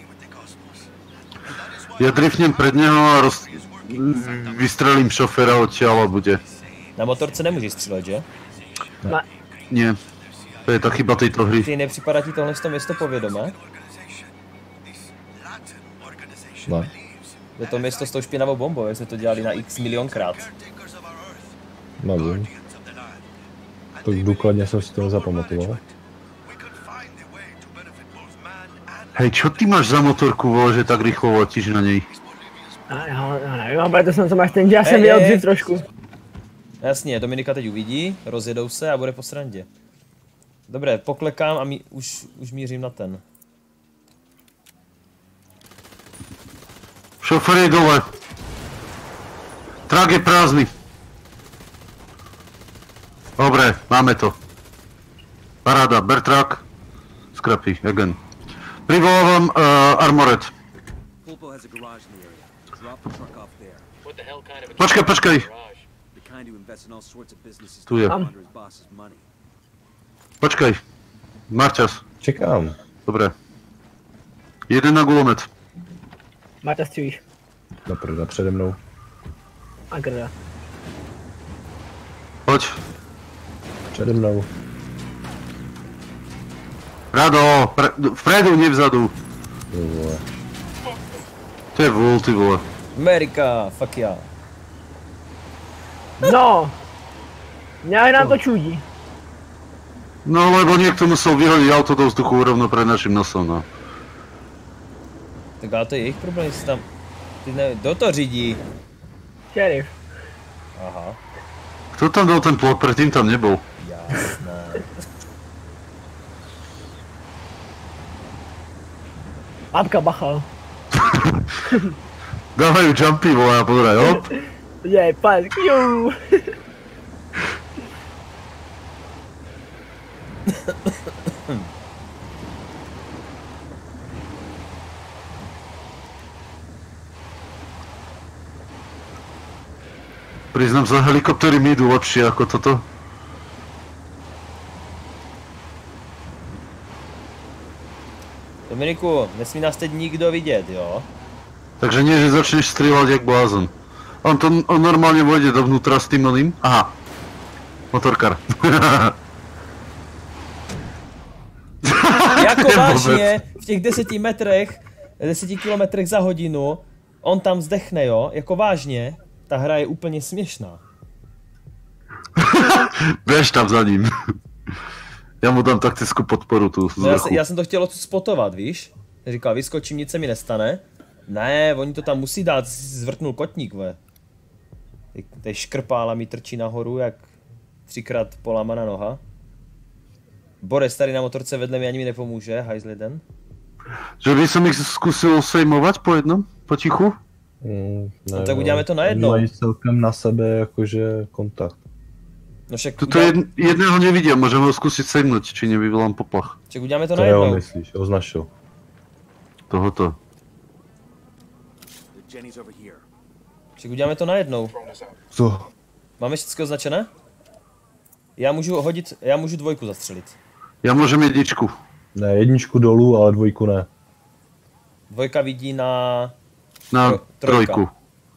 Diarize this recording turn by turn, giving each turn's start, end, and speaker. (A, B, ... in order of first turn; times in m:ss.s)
0:02.0-0:06.4 A
0:07.0-0:08.3 B
0:09.7-0:10.0 A
0:10.6-0:11.7 A
0:11.6-0:13.6 B
0:16.7-0:16.9 C
0:17.6-0:20.5 B
0:22.0-0:22.5 C
0:24.0-0:25.8 C
0:29.2-0:32.1 A
0:32.9-0:35.8 D
0:34.8-0:35.5 B
0:36.8-0:39.7 B
0:40.7-0:43.2 B
0:47.2-0:48.1 A
0:49.9-0:50.7 A
0:53.4-0:54.4 A
0:55.6-0:56.6 A
0:57.3-0:58.2 A
0:58.9-1:00.5 A
1:01.2-1:03.9 E
1:04.0-1:05.9 F
1:04.8-1:05.5 A
1:06.1-1:09.3 E
1:07.9-1:08.2 A
1:10.4-1:10.8 A
1:11.5-1:12.0 A
1:12.2-1:12.8 C
1:13.1-1:13.3 A
1:14.7-1:15.5 A
1:16.6-1:17.2 D
1:17.9-1:18.8 C
1:19.9-1:20.3 D
1:22.5-1:22.8 A
1:23.9-1:24.5 C
1:27.1-1:29.1 A
1:29.7-1:30.2 C
1:31.8-1:32.6 A
1:33.0-1:34.3 B
1:36.2-1:36.8 D
1:37.8-1:38.8 D
1:40.2-1:43.7 A
1:45.6-1:46.8 B
1:47.4-1:48.6 B
1:49.5-1:50.0 D
1:50.8-1:51.2 B
1:52.0-1:53.6 A
1:53.8-1:54.9 B
1:59.7-2:00.5 D
2:01.0-2:01.6 A
2:02.6-2:04.3 A
2:04.8-2:06.4 D
2:10.5-2:11.7 B
2:20.5-2:22.8 A
2:28.7-2:31.1 B
2:31.8-2:33.7 A
2:34.2-2:36.9 A
2:37.9-2:39.2 A
2:41.8-2:43.4 A
2:42.2-2:50.8 B
2:52.4-2:54.1 A
2:55.4-2:57.4 A
2:57.0-3:04.0 B
3:05.1-3:07.3 B
3:07.9-3:09.2 B
3:10.6-3:13.2 B
3:14.2-3:17.2 A
3:17.6-3:21.8 C
3:18.3-3:19.5 B
3:22.7-3:23.4 B
3:23.0-3:26.6 A
3:26.7-3:27.6 B
3:27.1-3:28.5 C
3:29.7-3:30.2 A
3:32.1-3:33.0 E
3:33.8-3:34.7 B
3:34.7-3:35.2 F
3:35.3-3:35.7 C
3:36.2-3:37.1 B
3:38.4-3:40.4 B
3:40.8-3:41.7 A
3:42.2-3:43.9 C
3:45.1-3:46.4 B
3:46.9-3:47.9 A
3:47.0-3:47.8 B